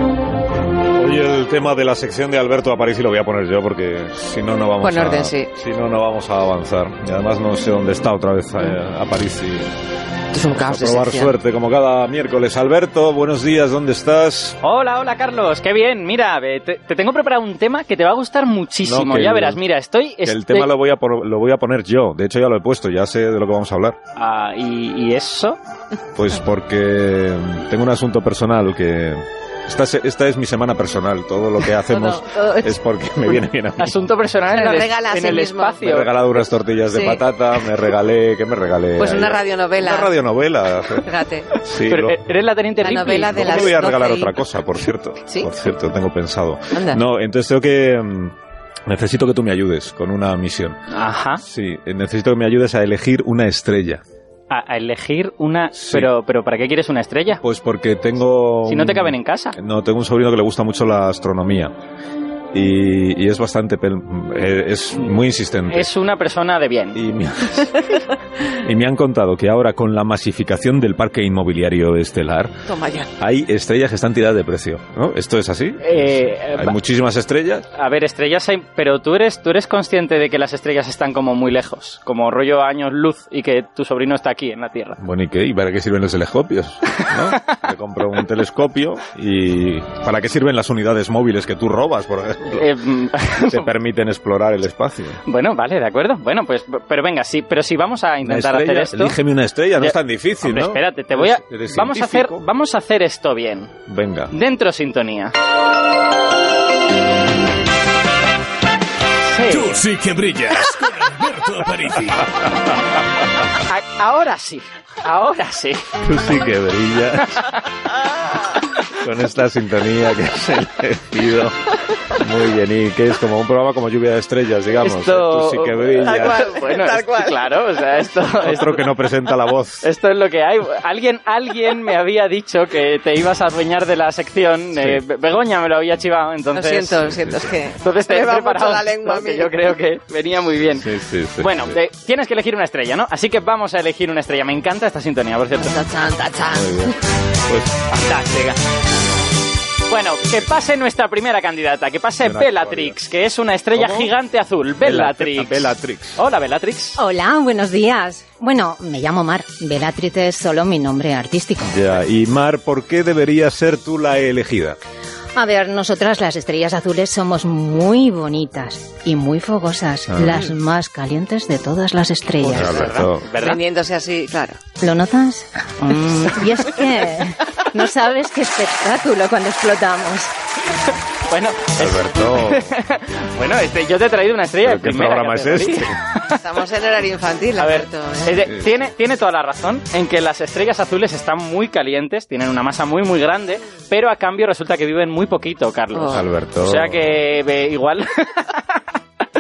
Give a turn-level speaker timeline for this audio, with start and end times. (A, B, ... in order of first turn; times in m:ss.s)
0:00.9-0:09.7 A
0:04.8-0:05.5 B
0:10.3-0:11.3 B
0:10.5-0:14.6 A
0:14.6-0:20.7 C
0:18.8-0:19.6 A
0:20.2-0:24.0 A
0:24.2-0:25.6 C
0:26.1-0:34.0 A
0:31.9-0:32.7 B
0:33.8-0:36.1 C
0:34.5-0:35.9 B
0:35.8-0:42.2 A
0:36.9-0:37.7 B
0:39.0-0:40.2 B
0:40.9-0:41.5 B
0:41.9-0:43.9 C
0:42.8-0:44.4 B
0:43.2-0:48.3 A
0:45.2-0:45.5 B
0:46.7-0:47.0 B
0:48.9-0:50.8 A
0:50.9-0:51.4 C
0:51.4-0:54.0 A
0:54.5-0:57.4 C
0:55.7-0:56.1 A
0:57.4-1:01.7 A
0:58.6-0:59.6 C
1:02.5-1:05.9 A
1:05.7-1:07.0 C
1:06.9-1:07.8 A
1:08.4-1:12.5 A
1:12.7-1:13.1 B
1:13.2-1:17.6 A
1:15.8-1:16.8 C
1:17.7-1:25.0 C
1:25.0-1:32.7 A
1:27.1-1:27.5 C
1:32.5-1:33.7 C
1:33.5-1:35.2 A
1:35.2-1:39.2 C
1:38.2-1:42.4 A
1:39.8-1:43.7 C
1:43.9-1:44.3 A
1:44.3-1:45.3 C
1:49.2-1:49.8 C
1:49.5-1:52.3 D
1:53.6-1:55.9 C
1:56.0-1:57.5 A
1:57.2-1:57.6 C
1:58.9-2:01.6 A
2:02.1-2:06.4 A
2:04.8-2:08.9 C
2:06.1-2:07.5 B
2:08.4-2:09.9 A
2:09.8-2:17.1 C
2:14.7-2:15.0 A
2:16.5-2:19.5 B
2:17.1-2:17.5 A
2:17.8-2:20.9 C
2:20.8-2:21.8 A
2:21.4-2:25.8 C
2:25.5-2:26.9 B
2:26.5-2:26.9 A
2:27.5-2:27.9 A
2:27.9-2:28.6 C
2:29.9-2:37.0 C
2:32.2-2:33.0 A
2:33.7-2:34.1 A
2:34.8-2:36.2 A
2:37.0-2:41.8 E
2:41.6-2:44.8 A
2:45.3-2:52.9 E
2:50.1-2:50.4 A
2:52.4-2:53.3 A
2:52.4-2:53.6 C
2:53.4-2:54.6 B
2:54.8-3:00.3 E
2:55.9-2:56.8 B
3:01.3-3:06.4 C
3:01.8-3:02.7 A
3:04.6-3:06.0 A
3:06.3-3:08.4 B
3:07.6-3:18.8 C
3:15.9-3:16.2 B
3:16.1-3:17.2 A